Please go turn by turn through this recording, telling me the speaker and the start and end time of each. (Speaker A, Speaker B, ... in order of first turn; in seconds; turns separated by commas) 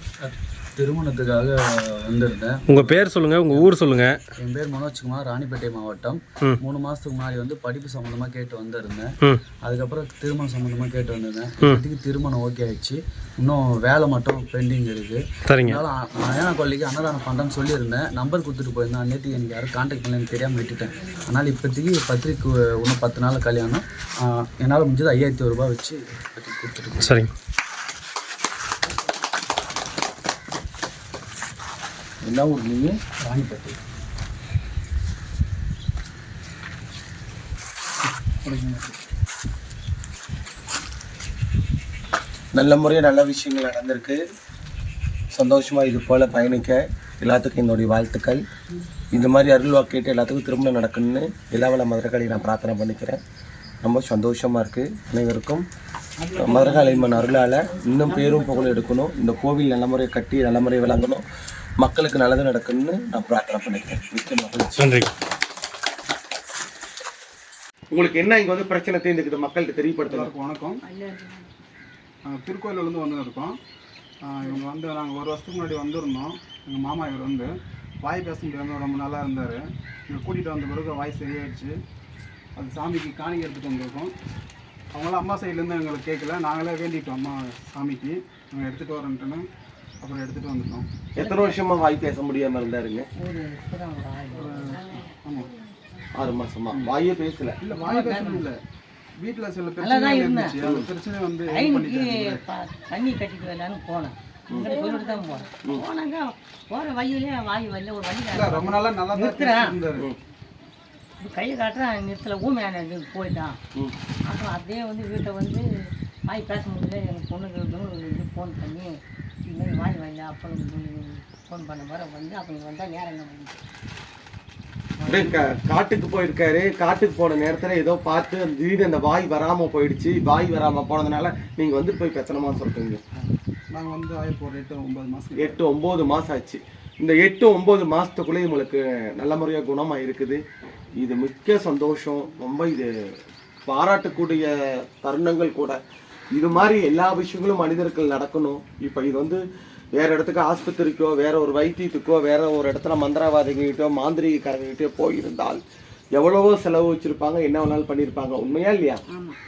Speaker A: 0.2-3.7, Speaker B: 2.7-4.2, Speaker A: 4.4-27.2, Speaker B: 15.5-15.8, Speaker B: 27.0-27.3, Speaker C: 32.2-33.0, Speaker A: 33.2-33.8, Speaker A: 38.5-38.8, Speaker C: 42.5-44.2, Speaker C: 45.3-48.4, Speaker C: 49.1-53.2, Speaker C: 53.8-55.7, Speaker D: 56.2-57.3, Speaker C: 56.3-61.2, Speaker D: 58.3-58.7, Speaker C: 61.8-64.8, Speaker B: 64.8-65.1, Speaker C: 67.9-70.3, Speaker D: 70.1-70.8, Speaker E: 70.8-71.4, Speaker D: 72.2-73.6, Speaker D: 74.2-81.8, Speaker D: 82.6-84.2, Speaker D: 84.9-89.5, Speaker D: 90.0-90.9, Speaker C: 91.2-93.1, Speaker E: 91.2-91.6, Speaker E: 93.2-95.0, Speaker D: 94.3-95.5, Speaker C: 96.2-97.6, Speaker D: 97.6-98.6, Speaker E: 97.8-98.5, Speaker D: 99.2-102.4, Speaker E: 99.8-100.6, Speaker C: 100.6-100.9, Speaker E: 101.5-109.8, Speaker C: 104.5-104.8, Speaker D: 108.3-110.1, Speaker E: 111.2-113.6, Speaker E: 114.3-115.7, Speaker E: 116.3-118.9, Speaker E: 119.5-123.6, Speaker D: 125.0-125.4, Speaker C: 125.1-133.0, Speaker D: 133.7-135.6, Speaker C: 135.4-140.4, Speaker C: 141.0-143.2, Speaker C: 143.7-145.8, Speaker C: 146.3-155.6, Speaker C: 156.2-159.0, Speaker E: 159.1-159.4